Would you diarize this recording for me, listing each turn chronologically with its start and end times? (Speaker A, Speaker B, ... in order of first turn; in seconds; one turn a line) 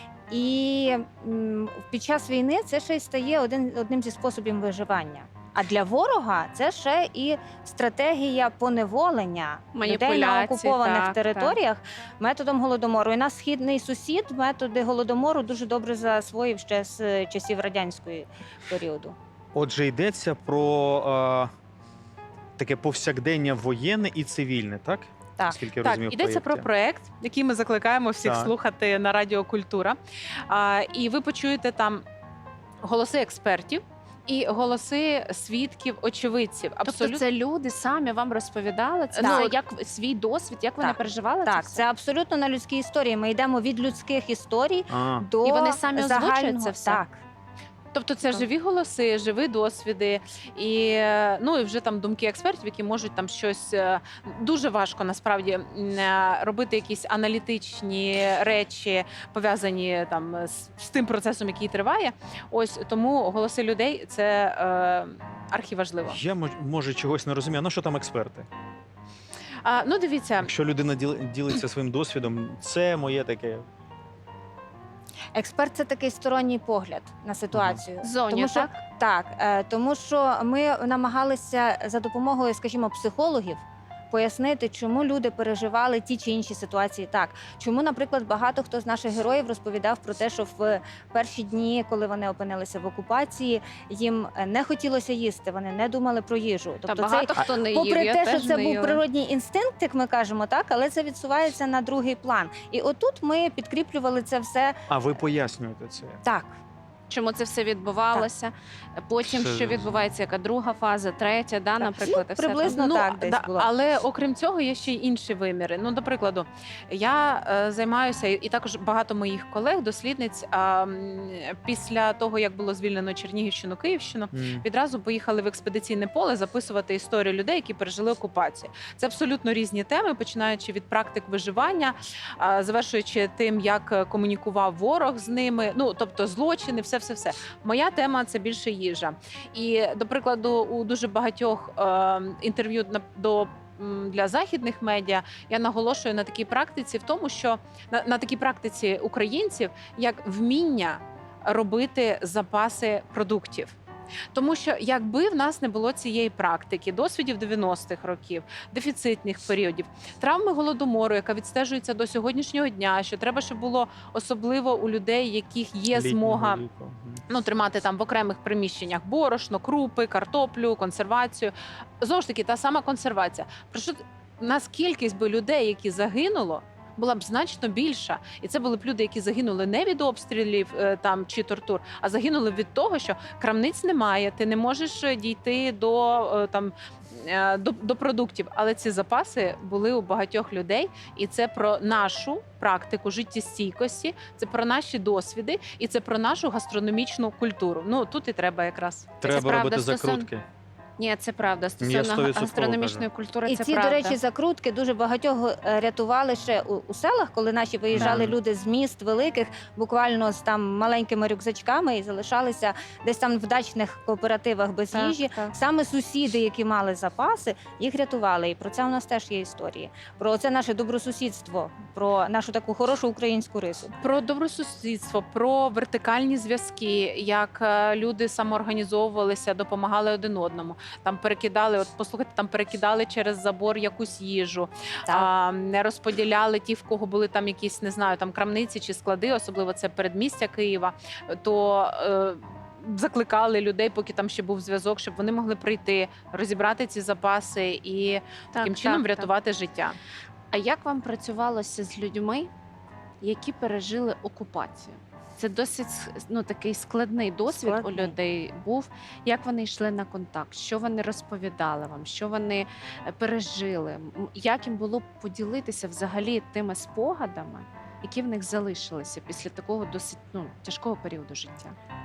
Speaker A: 0.3-19.1
Speaker B: 9.7-11.6
Speaker C: 19.5-21.5
Speaker C: 22.6-26.7
Speaker D: 25.8-30.0
Speaker C: 28.2-28.5
Speaker D: 30.5-32.0
Speaker D: 32.8-37.2
Speaker B: 36.8-41.8
Speaker D: 39.1-39.6
Speaker A: 39.2-39.5
Speaker A: 40.8-47.2
Speaker C: 44.9-45.2
Speaker B: 45.4-47.0
Speaker D: 47.9-66.2
Speaker C: 66.0-68.5
Speaker D: 69.6-70.5
Speaker C: 70.4-73.7
Speaker A: 75.3-104.8
Speaker C: 77.5-77.8
Speaker B: 78.0-78.7
Speaker B: 96.9-99.0
Speaker C: 104.9-106.2
Speaker A: 106.2-106.6
Speaker B: 107.1-112.8
Speaker C: 109.3-110.0
Speaker A: 111.8-113.7
Speaker D: 112.6-153.7
Speaker C: 124.3-124.6
Speaker D: 154.3-166.6
Speaker C: 165.9-167.2
Speaker D: 167.3-199.2
Speaker C: 199.2-200.4
Speaker B: 199.2-200.3
Speaker B: 201.0-204.2
Speaker C: 201.8-203.1
Speaker A: 203.4-224.0
Speaker C: 207.9-208.3
Speaker B: 214.9-215.5
Speaker D: 224.0-250.0
Speaker B: 248.5-249.3
Speaker B: 250.5-252.5
Speaker B: 253.2-271.8
Speaker A: 257.5-258.1